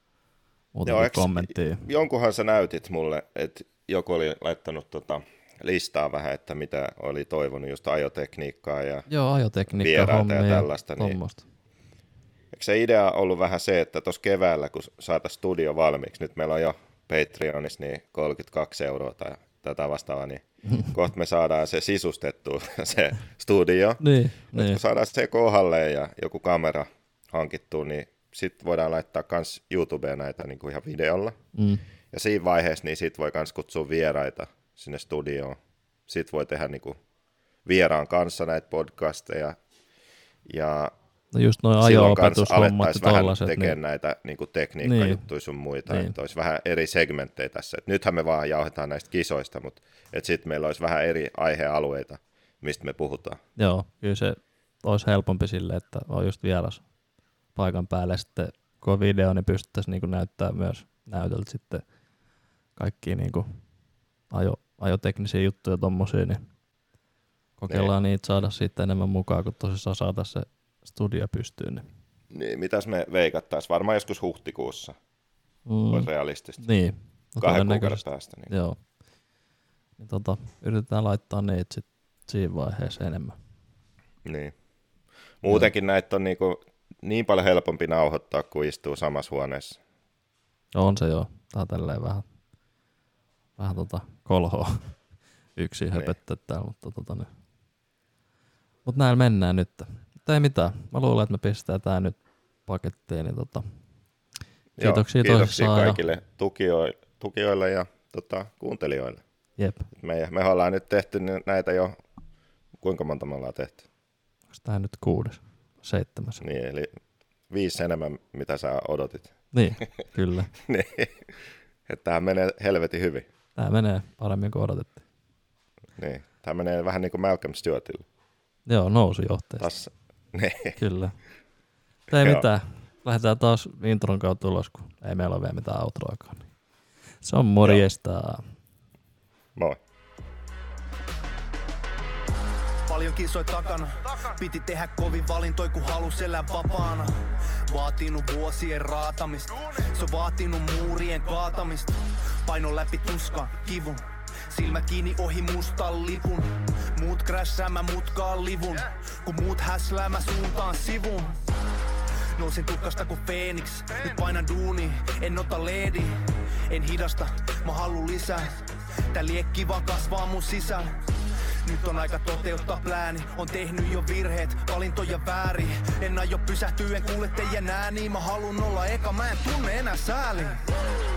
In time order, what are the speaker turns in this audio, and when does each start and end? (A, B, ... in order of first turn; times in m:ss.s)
0:00.7-0:01.8 A
0:00.9-0:09.1 B
0:09.1-0:11.5 A
0:09.7-0:11.2 B
0:12.5-0:31.4 B
0:24.0-0:24.8 A
0:31.5-0:31.8 A
0:32.1-0:37.0 B
0:37.6-0:39.6 B
0:40.4-0:40.9 B
0:41.3-0:43.8 A
0:41.8-0:53.4 B
0:44.8-0:45.2 A
0:45.9-0:46.1 A
0:53.6-0:56.8 A
0:57.6-1:01.8 A
1:02.8-1:03.5 A
1:04.3-1:06.4 A
1:07.6-1:11.8 A
1:12.3-1:15.0 B
1:15.7-1:16.1 A
1:15.9-1:16.6 B
1:16.6-1:18.8 A
1:17.4-1:18.5 B
1:20.0-1:23.3 A
1:24.2-1:24.5 B
1:25.4-1:29.8 B
1:30.8-1:32.2 A
1:33.6-1:35.0 A
1:35.6-1:37.3 A
1:38.8-1:43.7 A
1:44.8-1:49.2 B
1:44.8-1:46.0 A
1:49.6-1:49.9 A
1:49.9-1:52.0 B
1:52.8-1:53.8 B
1:54.5-1:56.4 A
1:56.4-1:57.0 B
1:57.5-1:59.3 B
1:59.5-2:00.5 A
2:00.6-2:03.2 B
2:03.6-2:05.0 A
2:06.0-2:08.0 B
2:08.7-2:09.7 A
2:09.6-2:10.8 B
2:10.8-2:11.2 A
2:12.1-2:16.5 A
2:17.2-2:18.4 A
2:19.6-2:19.8 B
2:22.9-2:41.4 C
2:42.2-3:00.7 C